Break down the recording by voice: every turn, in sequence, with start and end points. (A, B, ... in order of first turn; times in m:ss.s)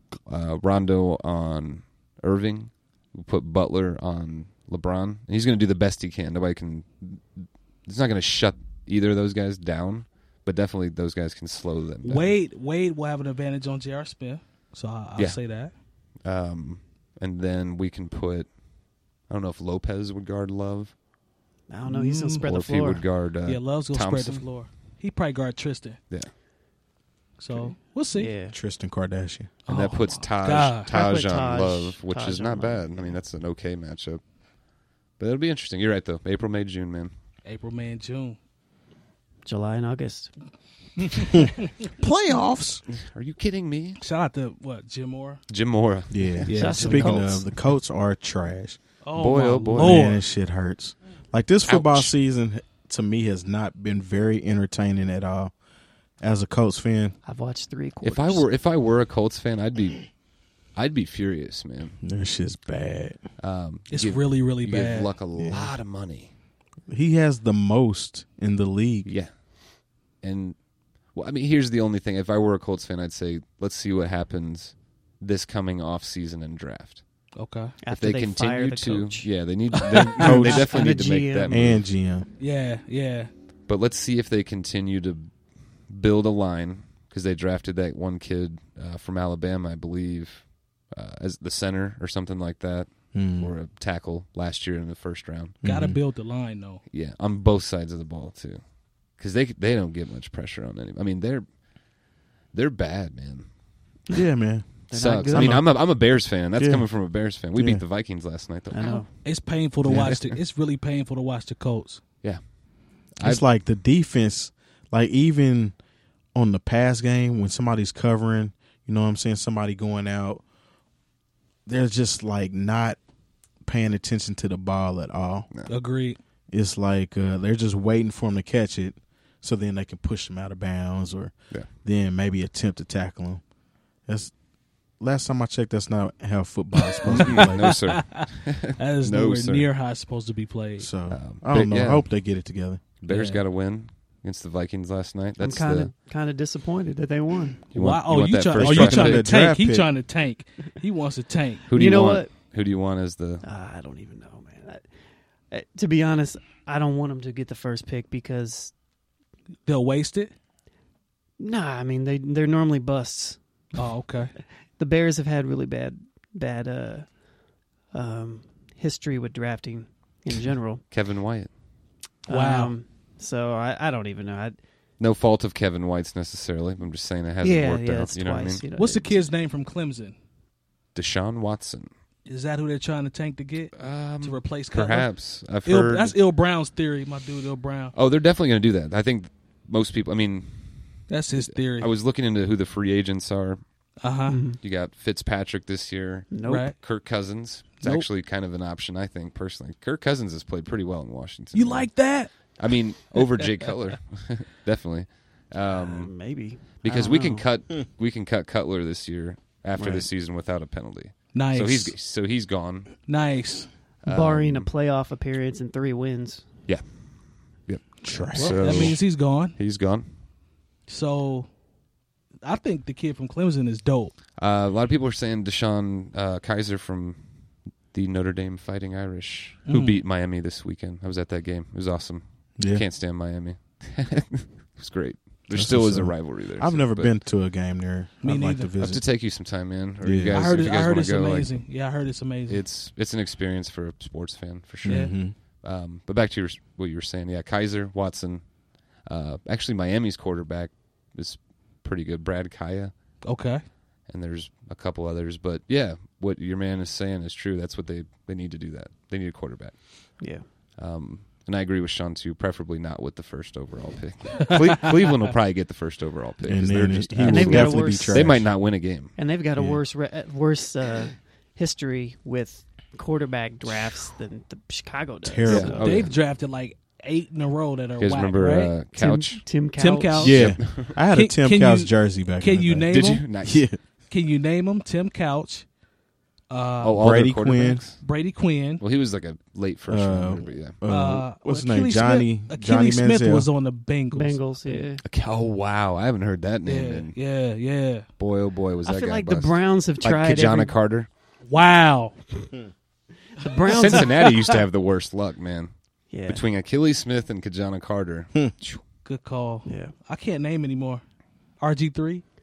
0:00.2-0:12.3 A
0:12.0-0:15.7 B
0:16.2-0:18.5 A
0:19.2-0:21.0 A
0:21.7-0:23.0 C
0:21.8-0:22.4 B
0:22.4-0:24.5 A
0:23.4-0:26.0 B
0:27.4-0:28.3 B
0:27.5-0:28.6 C
0:28.5-0:29.5 D
0:29.7-0:30.9 B
0:29.7-0:34.2 A
0:30.9-0:33.2 C
0:35.2-0:37.1 A
0:37.4-0:38.4 B
0:39.4-0:40.3 C
0:41.8-0:42.8 D
0:42.9-0:44.0 A
0:44.0-0:45.4 B
0:45.5-0:46.5 A
0:46.1-0:48.8 D
0:46.4-0:47.3 B
0:46.5-0:47.4 C
0:49.0-0:50.2 B
0:49.2-0:50.0 A
0:49.8-0:55.5 D
0:51.7-0:52.1 A
0:56.2-0:57.2 D
0:57.2-0:58.4 C
0:58.0-1:00.1 A
1:00.7-1:02.0 A
1:02.0-1:03.2 D
1:03.4-1:06.3 A
1:03.9-1:05.1 B
1:05.4-1:05.7 D
1:06.9-1:09.1 D
1:09.0-1:09.3 A
1:10.2-1:10.6 A
1:11.1-1:17.0 A
1:17.4-1:17.7 B
1:17.8-1:21.7 C
1:17.9-1:21.8 A
1:20.2-1:20.7 D
1:21.5-1:22.3 D
1:22.4-1:23.3 B
1:23.7-1:25.3 A
1:25.9-1:35.6 A
1:33.1-1:33.5 D
1:35.6-1:36.0 D
1:35.6-1:36.8 B
1:36.9-1:41.5 A
1:42.5-1:43.5 A
1:44.1-1:45.9 D
1:44.9-1:45.6 C
1:44.9-1:49.0 A
1:46.6-1:47.8 D
1:48.7-1:49.1 C
1:49.2-1:52.0 B
1:49.8-1:50.1 D
1:49.9-1:50.4 A
1:52.2-1:52.5 A
1:53.2-1:53.4 A
1:53.2-1:55.8 D
1:56.3-2:00.4 D
2:01.6-2:03.0 D
2:03.6-2:05.5 D
2:05.7-2:06.2 B
2:06.5-2:13.4 D
2:14.1-2:14.3 D
2:15.0-2:17.7 D
2:17.0-2:20.9 B
2:17.0-2:19.7 A
2:20.8-2:22.8 D
2:21.1-2:22.0 A
2:23.0-2:25.9 A
2:23.1-2:23.4 B
2:25.4-2:27.6 C
2:27.7-2:29.3 A
2:27.7-2:31.7 B
2:28.5-2:29.9 D
2:31.7-2:33.4 A
2:31.7-2:32.3 C
2:33.4-2:34.8 C
2:35.5-2:38.7 C
2:39.6-2:40.3 B
2:41.4-2:43.4 C
2:43.7-2:44.3 B
2:44.8-2:47.2 C
2:47.9-2:50.8 C
2:50.9-2:51.5 A
2:52.3-2:54.6 C
2:52.3-2:52.7 B
2:55.0-2:58.6 A
2:57.4-2:59.2 C
2:58.8-3:00.2 B
3:00.9-3:01.9 A
3:02.2-3:07.9 B
3:03.7-3:06.2 A
3:07.9-3:13.6 A
3:11.1-3:11.9 B
3:14.0-3:14.4 B
3:14.3-3:14.6 C
3:14.6-3:21.9 A
3:16.3-3:16.7 C
3:16.4-3:16.8 B
3:17.8-3:18.1 B
3:21.5-3:22.3 B
3:22.5-3:26.2 A
3:23.1-3:23.5 B
3:25.7-3:27.4 C
3:26.8-3:33.0 A
3:29.8-3:30.1 C
3:31.3-3:31.9 B
3:33.0-3:33.7 B
3:34.0-3:34.7 A
3:34.0-3:36.5 C
3:36.7-3:40.1 A
3:38.0-3:38.5 D
3:38.3-3:38.9 C
3:38.6-3:39.6 B
3:40.9-3:41.5 B
3:42.4-3:44.2 B
3:44.4-3:47.2 A
3:47.9-3:57.2 A
3:49.7-3:50.0 B
3:52.6-3:52.8 D
3:55.5-3:59.0 D
3:58.2-3:58.7 B
3:58.8-4:01.6 A
4:00.0-4:00.4 D
4:00.3-4:02.6 B
4:02.5-4:12.9 A
4:04.8-4:05.4 D
4:04.8-4:05.1 B
4:13.2-4:13.6 B
4:14.0-4:19.8 A
4:20.2-4:20.4 C
4:20.8-4:29.2 A
4:26.4-4:28.5 D
4:27.2-4:28.4 C
4:29.2-4:36.1 C
4:35.2-4:35.9 D
4:35.4-4:36.1 A
4:35.8-4:38.7 B
4:38.0-4:39.4 A
4:39.0-4:40.4 C
4:39.8-4:43.3 B
4:40.2-4:43.8 D
4:40.3-4:41.0 A
4:42.9-4:43.6 A
4:44.1-4:45.7 B
4:46.5-4:47.0 B
4:46.8-4:48.0 A
4:47.0-4:47.8 D
4:48.0-4:48.8 B
4:48.8-4:50.8 A
4:49.9-4:53.5 D
4:50.9-4:54.8 B
4:54.1-4:55.0 C
4:55.0-4:57.2 A
4:56.6-4:58.1 B
4:58.2-5:01.1 A
4:58.8-5:00.8 C
5:01.5-5:02.5 B
5:03.4-5:04.4 C
5:03.7-5:04.3 B
5:03.7-5:05.7 A
5:06.1-5:06.4 C
5:06.2-5:08.8 A
5:09.0-5:11.0 B
5:09.6-5:09.9 C
5:11.6-5:12.2 B